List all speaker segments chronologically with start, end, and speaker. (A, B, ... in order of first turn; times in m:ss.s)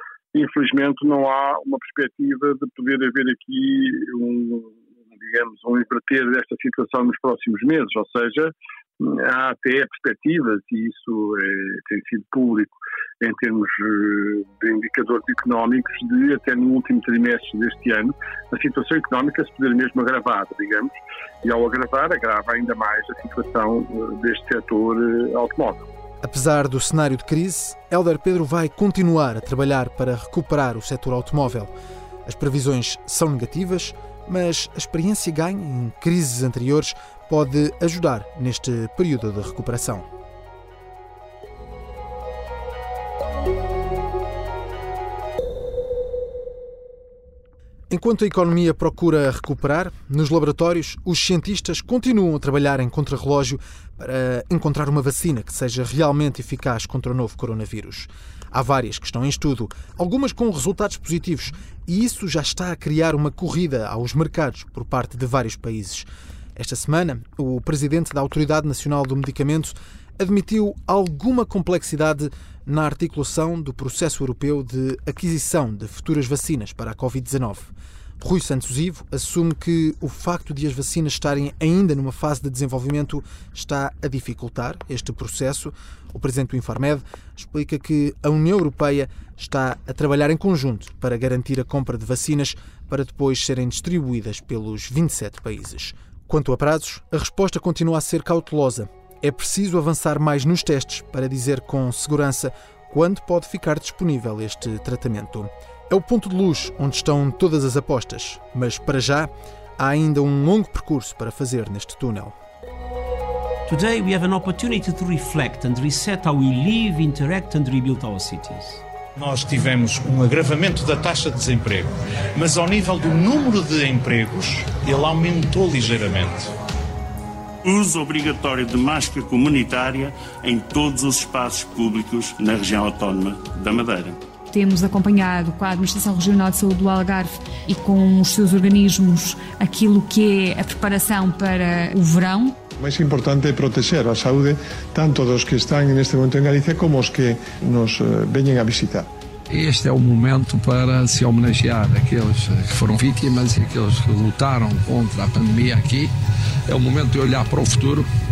0:00.3-0:25.8 A
0:26.2-0:31.7 B
0:32.2-0:40.1 B
0:47.9-1:52.3 B
1:53.7-1:58.8 C
1:59.2-2:01.8 D
2:02.4-2:06.4 D
2:07.6-2:14.2 E
2:14.5-2:22.5 F
2:22.8-2:29.1 G
2:29.5-2:36.1 H
2:36.7-2:38.1 H